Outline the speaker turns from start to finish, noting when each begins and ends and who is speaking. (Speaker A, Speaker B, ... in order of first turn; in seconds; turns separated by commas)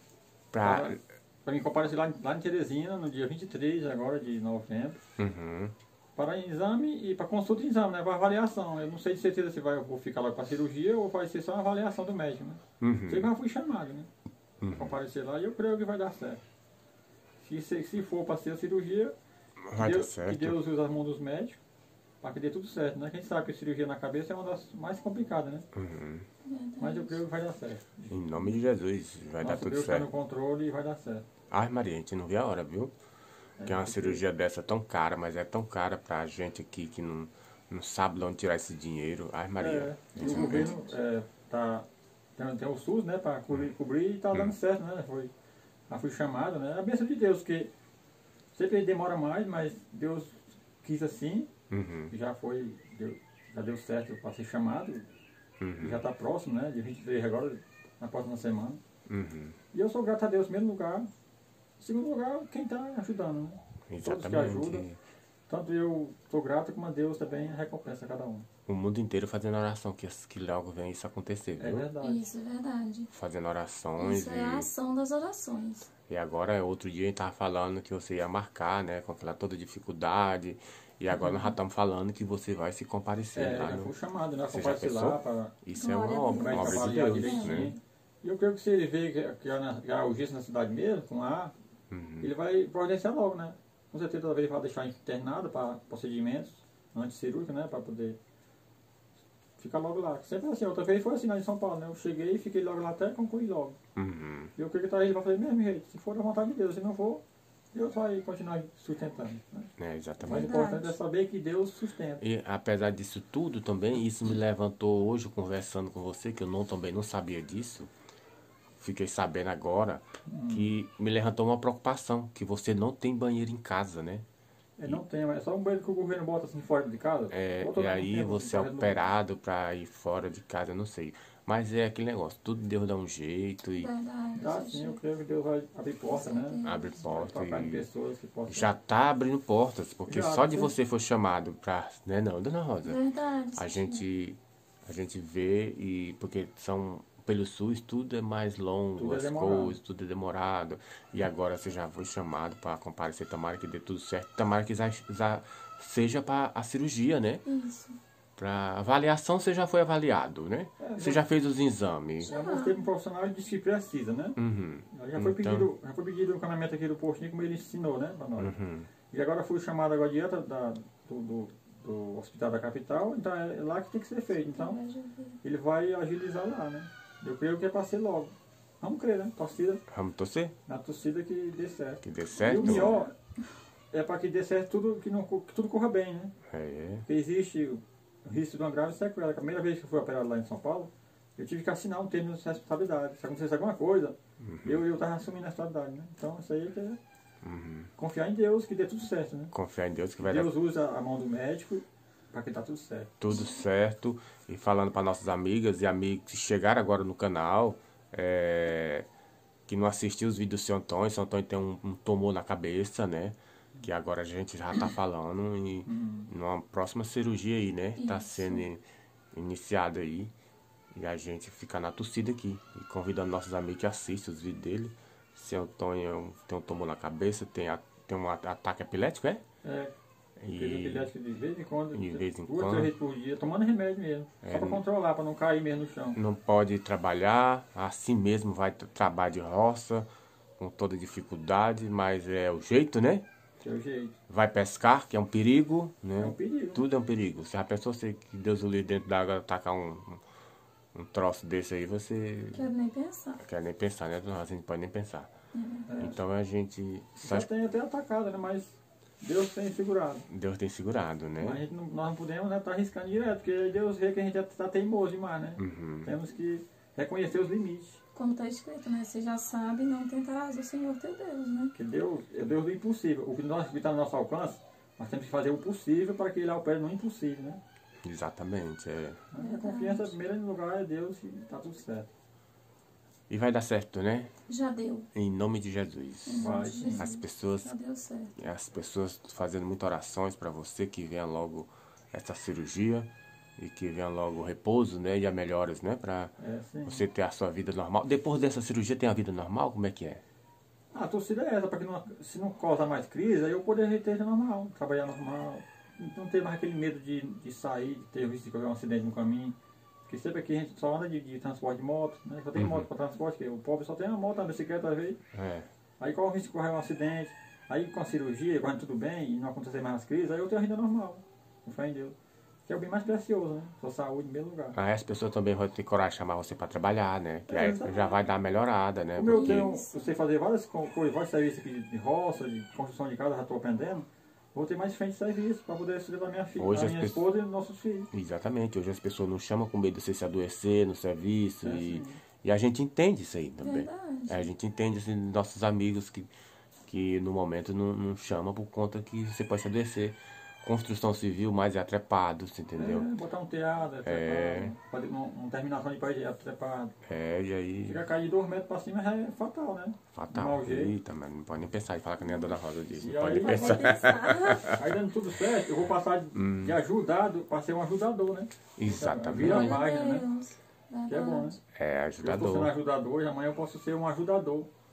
Speaker A: 0.5-1.0, Speaker B: 0.6-5.0, Speaker A: 5.2-5.8, Speaker B: 6.2-14.1, Speaker A: 12.8-13.3, Speaker A: 14.6-15.0, Speaker B: 14.7-16.4, Speaker B: 17.4-19.1, Speaker A: 19.6-20.6, Speaker B: 19.7-21.6, Speaker B: 22.2-25.7, Speaker A: 25.7-26.3, Speaker C: 26.4-27.2, Speaker B: 26.8-28.3, Speaker A: 28.1-30.1, Speaker B: 29.4-31.3, Speaker A: 31.5-32.9, Speaker B: 33.6-34.2, Speaker A: 33.6-40.8, Speaker B: 39.6-45.3, Speaker C: 40.2-40.9, Speaker B: 45.9-47.7, Speaker B: 48.5-51.5, Speaker A: 51.7-52.1, Speaker B: 52.1-55.1, Speaker A: 55.6-56.0, Speaker B: 55.8-58.8, Speaker A: 59.1-59.6, Speaker B: 59.7-61.1, Speaker B: 61.8-64.9, Speaker A: 63.9-65.0, Speaker B: 65.5-68.5, Speaker A: 68.7-71.9, Speaker B: 71.6-72.3, Speaker C: 72.0-73.1, Speaker A: 73.1-74.7, Speaker C: 74.0-75.9, Speaker A: 76.1-83.9, Speaker B: 81.1-81.5, Speaker B: 83.3-85.6, Speaker A: 84.5-87.7, Speaker C: 85.8-87.7, Speaker B: 86.3-91.5, Speaker A: 91.9-92.3, Speaker B: 92.2-98.2, Speaker B: 99.6-103.8, Speaker A: 104.0-104.5, Speaker B: 104.6-109.7, Speaker A: 109.8-110.5, Speaker B: 110.2-112.2, Speaker C: 110.2-111.0, Speaker A: 112.2-117.9, Speaker A: 118.8-124.2, Speaker B: 120.3-120.7, Speaker B: 124.8-129.1, Speaker A: 127.3-133.9, Speaker C: 133.8-135.0, Speaker B: 134.3-138.7, Speaker C: 136.1-137.1, Speaker A: 136.6-137.9, Speaker A: 138.5-143.0, Speaker B: 140.1-140.8, Speaker C: 142.8-144.1, Speaker A: 143.6-157.4, Speaker B: 149.0-149.8, Speaker C: 157.4-158.0, Speaker A: 158.4-162.3, Speaker B: 160.8-161.2, Speaker C: 162.2-162.8, Speaker B: 162.2-164.4, Speaker A: 164.4-165.7, Speaker B: 164.9-168.6, Speaker A: 168.4-168.9, Speaker B: 169.1-174.8, Speaker C: 174.3-175.4, Speaker B: 175.4-179.8, Speaker A: 179.9-180.6, Speaker B: 180.7-183.1, Speaker A: 182.0-183.1, Speaker C: 182.5-183.0, Speaker B: 183.9-186.3, Speaker A: 186.5-187.1, Speaker B: 187.1-197.0, Speaker A: 194.4-194.8, Speaker A: 197.4-197.9, Speaker B: 198.0-199.5, Speaker A: 199.5-200.5, Speaker B: 200.2-203.1, Speaker A: 203.2-209.1, Speaker A: 209.7-220.3, Speaker B: 215.9-216.3, Speaker C: 218.0-218.7, Speaker A: 220.9-229.4, Speaker B: 229.6-229.9, Speaker A: 230.4-231.1, Speaker B: 230.5-236.2, Speaker A: 231.9-232.9, Speaker A: 234.4-234.8, Speaker A: 236.1-243.2, Speaker B: 243.6-244.2, Speaker A: 244.3-250.2, Speaker B: 246.2-246.8, Speaker A: 250.9-252.7, Speaker C: 252.5-253.4, Speaker A: 253.4-255.3, Speaker C: 255.5-255.9, Speaker B: 255.9-256.2, Speaker A: 256.0-257.5, Speaker B: 257.2-260.3, Speaker A: 260.3-261.6, Speaker B: 261.4-268.0, Speaker A: 265.6-266.1, Speaker C: 268.1-271.7, Speaker B: 271.7-277.6, Speaker A: 278.0-279.2, Speaker B: 279.3-282.1, Speaker C: 279.4-280.2, Speaker A: 283.3-284.3, Speaker C: 284.5-285.1, Speaker A: 285.1-287.8, Speaker C: 286.3-288.3, Speaker B: 286.4-287.1, Speaker A: 288.4-296.3, Speaker B: 296.4-297.1, Speaker A: 296.9-300.2, Speaker B: 300.9-315.2, Speaker A: 312.6-312.9, Speaker A: 315.3-315.7, Speaker B: 316.0-324.8, Speaker A: 324.7-329.7, Speaker B: 327.5-328.3, Speaker B: 329.2-338.1, Speaker C: 329.3-330.1, Speaker A: 336.6-337.2, Speaker A: 338.1-346.3, Speaker B: 341.6-342.2, Speaker C: 343.6-344.5, Speaker A: 346.9-353.1, Speaker B: 352.8-356.9, Speaker A: 354.0-354.8, Speaker A: 357.0-358.0, Speaker B: 357.8-360.9, Speaker A: 360.1-364.8, Speaker B: 362.9-363.9, Speaker C: 363.3-364.7, Speaker B: 364.8-370.3, Speaker A: 366.3-366.8, Speaker A: 368.8-369.8, Speaker C: 369.4-371.6, Speaker B: 371.1-371.6, Speaker A: 371.7-372.7, Speaker B: 372.2-374.7